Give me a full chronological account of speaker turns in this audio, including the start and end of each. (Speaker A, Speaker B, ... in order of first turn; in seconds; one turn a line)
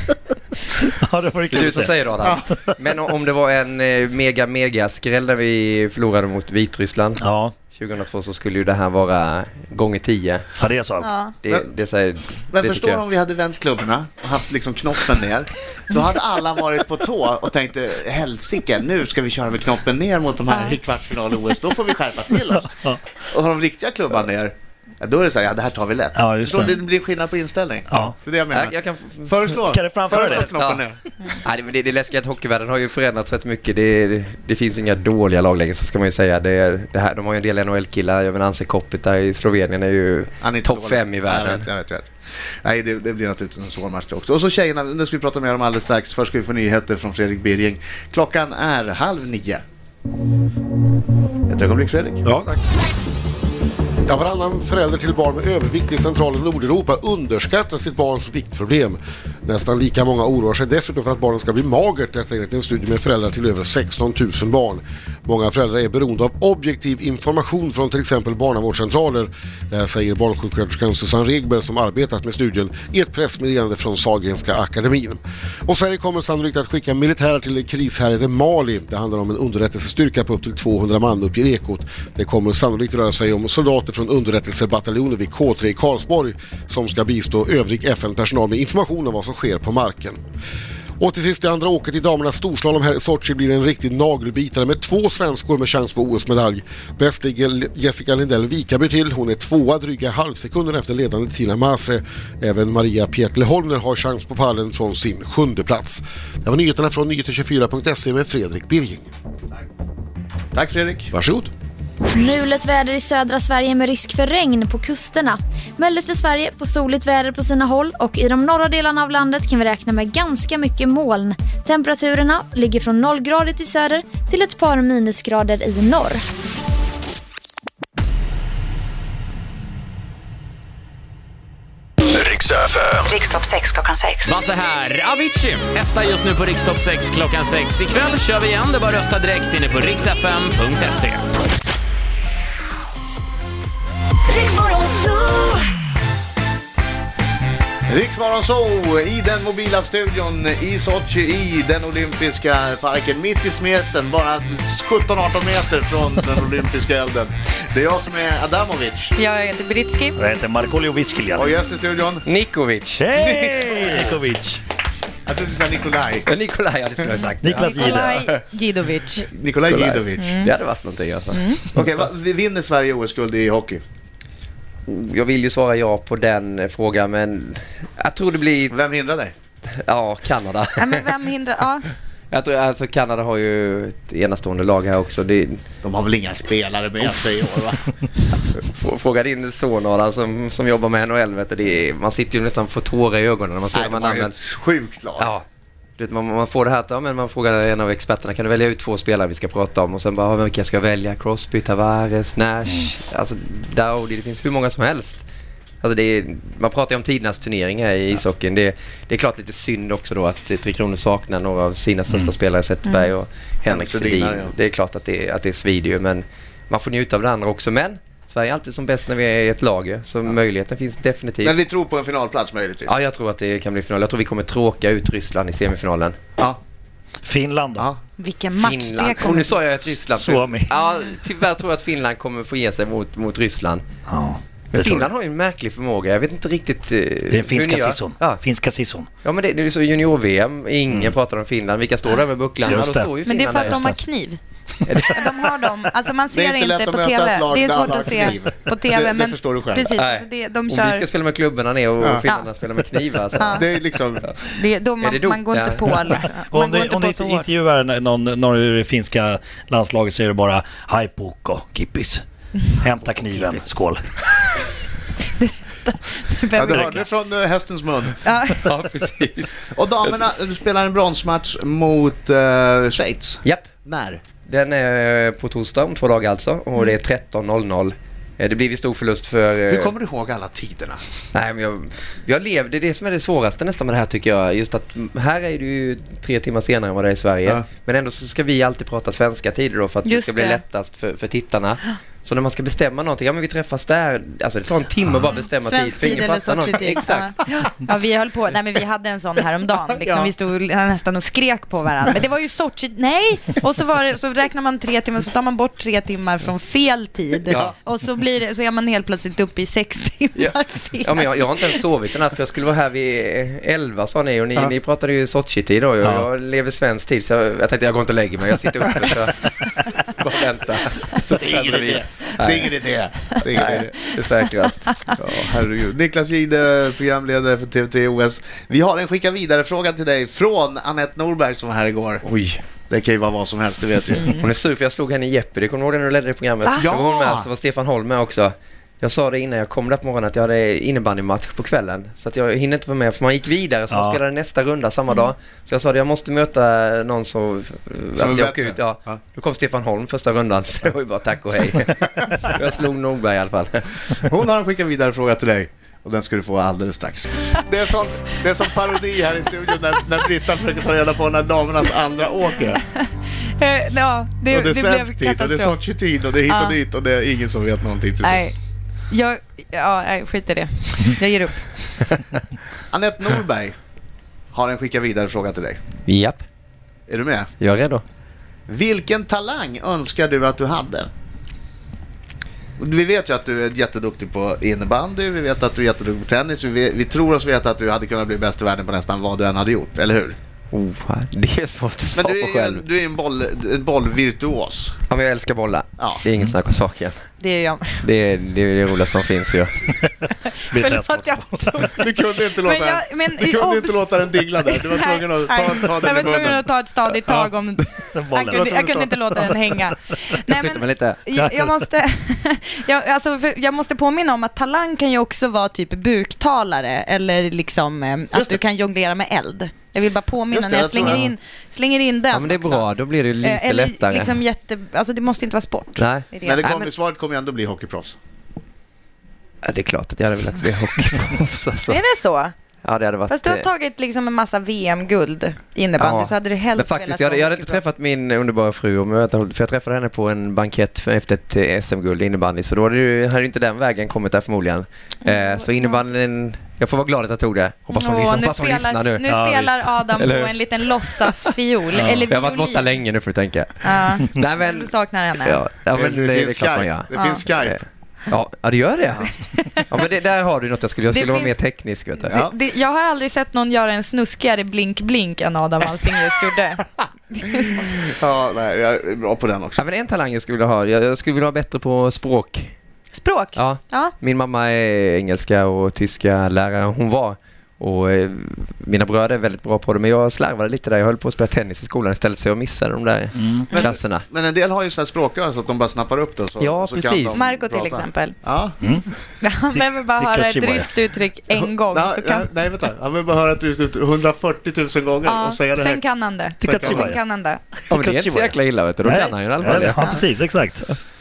Speaker A: 0.8-2.7
Speaker B: 1.5-10.4
Speaker A: 7.2-7.5
Speaker A: 10.6-11.1
Speaker C: 11.0-11.3
Speaker B: 11.4-13.0
Speaker D: 12.5-31.0
Speaker C: 20.5-20.8
Speaker A: 22.6-23.0
Speaker A: 26.1-26.8
Speaker A: 27.9-28.1
Speaker B: 28.5-29.3
Speaker A: 29.6-30.6
Speaker B: 30.1-30.8
Speaker B: 31.3-41.7
Speaker D: 40.4-49.6
Speaker D: 51.5-52.2
Speaker E: 52.2-52.6
Speaker E: 54.1-90.2
Speaker E: 91.0-109.1
Speaker D: 110.5-111.1
Speaker E: 111.1-111.5
Speaker F: 112.1-126.2
Speaker G: 132.1-133.1
Speaker C: 133.1-134.3
Speaker G: 134.2-141.4
Speaker D: 147.9-159.1
Speaker C: 159.2-160.2
Speaker A: 160.2-161.6
Speaker D: 161.3-162.2
Speaker B: 162.2-163.0
Speaker A: 162.9-164.6
Speaker D: 163.1-164.2
Speaker D: 165.2-166.3
Speaker B: 166.2-168.4
Speaker A: 167.4-168.2
Speaker C: 167.6-169.3
Speaker D: 169.3-170.3
Speaker B: 169.7-171.6
Speaker C: 170.2-170.5
Speaker C: 171.3-171.6
Speaker D: 171.7-173.8
Speaker B: 174.9-178.7
Speaker D: 178.7-179.3
Speaker B: 179.7-181.1
Speaker C: 180.8-181.8
Speaker B: 182.3-185.6
Speaker D: 185.8-187.9
Speaker B: 188.5-194.3
Speaker D: 193.7-195.3
Speaker B: 195.2-195.4
Speaker B: 196.0-205.2
Speaker B: 205.8-221.5
Speaker D: 213.7-214.5
Speaker D: 221.4-222.9
Speaker B: 222.9-226.2
Speaker A: 227.2-227.9
Speaker C: 228.2-229.5
Speaker B: 228.6-233.8
Speaker A: 230.1-230.7
Speaker A: 234.1-235.1
Speaker B: 234.7-238.4
Speaker A: 237.3-239.1
Speaker B: 239.2-243.9
Speaker A: 242.6-244.0
Speaker C: 243.2-244.4
Speaker B: 244.8-245.2
Speaker C: 245.1-251.1
Speaker D: 246.3-249.9
Speaker B: 249.9-253.6
Speaker D: 252.0-252.2
Speaker C: 253.4-253.7
Speaker D: 253.4-254.3
Speaker C: 254.4-257.5
Speaker B: 255.0-256.2
Speaker A: 256.5-262.2
Speaker A: 262.8-264.0
Speaker C: 265.4-267.0
Speaker D: 266.5-268.2
Speaker A: 266.7-267.1
Speaker C: 268.2-268.6
Speaker B: 268.6-270.2
Speaker D: 269.7-274.2
Speaker B: 273.4-273.7
Speaker B: 274.4-279.9
Speaker D: 279.7-281.0
Speaker B: 281.3-297.4
Speaker C: 290.0-290.6
Speaker C: 295.6-311.8
Speaker D: 300.0-300.3
Speaker B: 310.4-325.5
Speaker D: 321.2-324.2
Speaker D: 325.2-332.2
Speaker B: 332.2-332.6
Speaker D: 332.9-334.4
Speaker B: 334.3-353.9
Speaker D: 336.7-337.5
Speaker A: 343.9-344.2
Speaker D: 348.2-349.2
Speaker D: 354.1-362.8
Speaker C: 362.8-365.8
Speaker D: 364.5-368.4
Speaker C: 366.5-366.8
Speaker C: 368.2-368.6
Speaker C: 369.1-371.8
Speaker D: 372.9-373.8
Speaker D: 374.5-375.8
Speaker B: 376.1-376.4
Speaker D: 377.1-377.5
Speaker B: 377.6-378.0
Speaker D: 378.7-381.1
Speaker D: 382.8-390.4
Speaker B: 390.7-392.8
Speaker D: 392.1-395.0
Speaker B: 395.1-397.2
Speaker D: 396.0-396.2
Speaker C: 397.4-398.1
Speaker B: 398.0-400.0
Speaker C: 400.6-401.9
Speaker A: 400.7-402.0
Speaker D: 402.0-406.6
Speaker C: 402.6-422.9
Speaker A: 408.1-409.1
Speaker D: 408.5-409.5
Speaker B: 410.4-411.2
Speaker A: 411.4-411.8
Speaker D: 418.3-418.6
Speaker D: 420.5-421.2
Speaker B: 422.3-424.4
Speaker C: 423.4-426.7
Speaker B: 426.0-426.9
Speaker D: 426.4-428.1
Speaker B: 429.6-432.0
Speaker C: 431.9-432.5
Speaker B: 432.8-433.7
Speaker C: 433.3-437.8
Speaker B: 436.0-462.3
Speaker C: 445.2-446.0
Speaker C: 447.9-452.9
Speaker A: 449.3-449.6
Speaker C: 453.8-455.6
Speaker D: 455.9-457.8
Speaker C: 457.1-457.4
Speaker C: 459.3-459.9
Speaker C: 461.1-461.6
Speaker C: 462.2-467.8
Speaker D: 467.6-469.8
Speaker B: 469.8-472.7
Speaker C: 473.1-474.1
Speaker B: 473.6-484.2
Speaker A: 483.4-483.7
Speaker D: 483.7-488.8
Speaker B: 486.6-487.4
Speaker C: 487.3-488.4
Speaker A: 488.8-491.1
Speaker C: 489.4-492.5
Speaker D: 491.9-496.0
Speaker C: 495.2-497.6
Speaker A: 496.6-497.2
Speaker D: 496.6-497.1
Speaker B: 497.9-500.1
Speaker A: 497.9-500.9